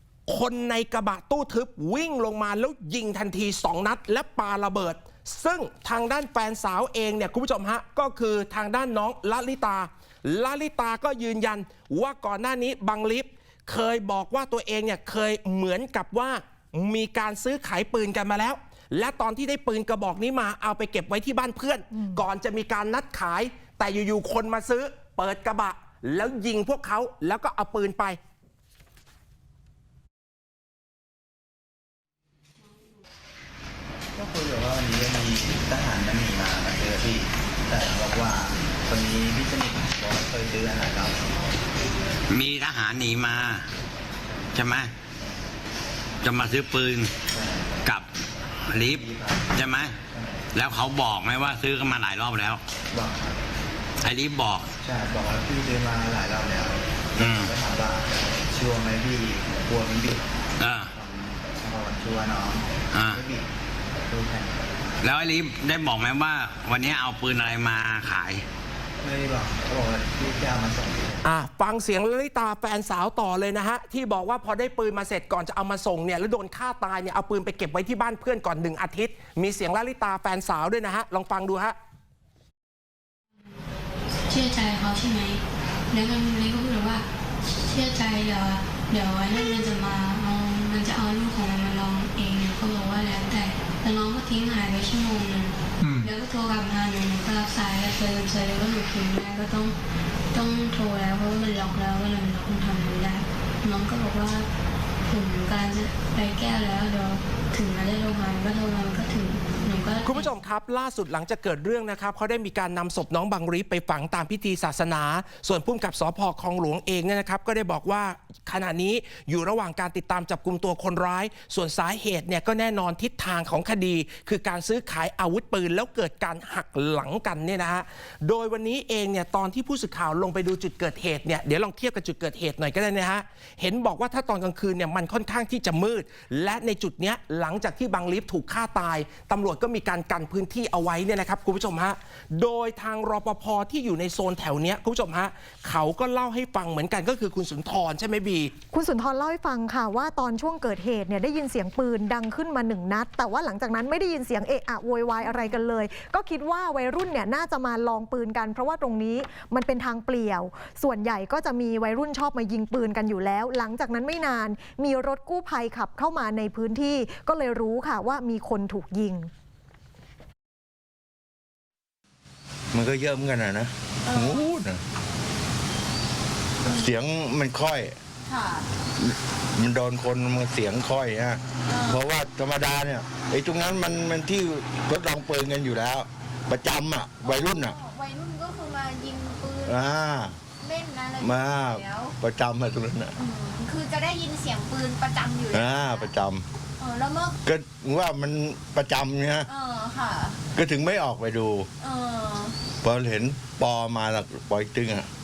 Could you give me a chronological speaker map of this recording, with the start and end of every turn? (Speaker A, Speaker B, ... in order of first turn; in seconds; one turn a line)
Speaker A: 0.3-28.2
Speaker B: 22.0-22.2
Speaker C: 34.1-41.5
Speaker D: 42.3-43.7
Speaker D: 44.5-44.9
Speaker D: 46.2-47.1
Speaker C: 47.3-47.9
Speaker D: 48.7-50.0
Speaker C: 48.7-50.5
Speaker D: 50.5-52.6
Speaker C: 52.9-53.4
Speaker D: 54.0-54.7
Speaker C: 54.8-60.4
Speaker D: 57.2-57.5
Speaker D: 60.6-60.9
Speaker C: 60.9-63.5
Speaker D: 62.9-63.2
Speaker C: 64.0-64.9
Speaker D: 65.0-68.5
Speaker C: 69.0-71.2
Speaker A: 71.2-81.8
Speaker E: 84.3-87.1
Speaker E: 87.7-95.6
Speaker E: 96.1-99.8
Speaker E: 100.3-104.5
Speaker E: 105.1-110.3
Speaker A: 110.0-148.5
Speaker B: 148.7-169.3
Speaker F: 172.7-174.8
Speaker G: 174.1-174.5
Speaker G: 176.7-176.9
Speaker F: 176.7-178.0
Speaker G: 178.2-178.7
Speaker F: 179.0-187.8
Speaker G: 181.7-182.0
Speaker G: 187.2-189.8
Speaker F: 189.7-190.4
Speaker G: 190.6-192.1
Speaker F: 191.2-193.1
Speaker G: 193.2-196.1
Speaker F: 195.5-196.4
Speaker G: 196.8-197.4
Speaker F: 197.4-199.5
Speaker G: 199.5-200.4
Speaker F: 200.5-201.7
Speaker G: 201.8-202.6
Speaker F: 202.8-205.1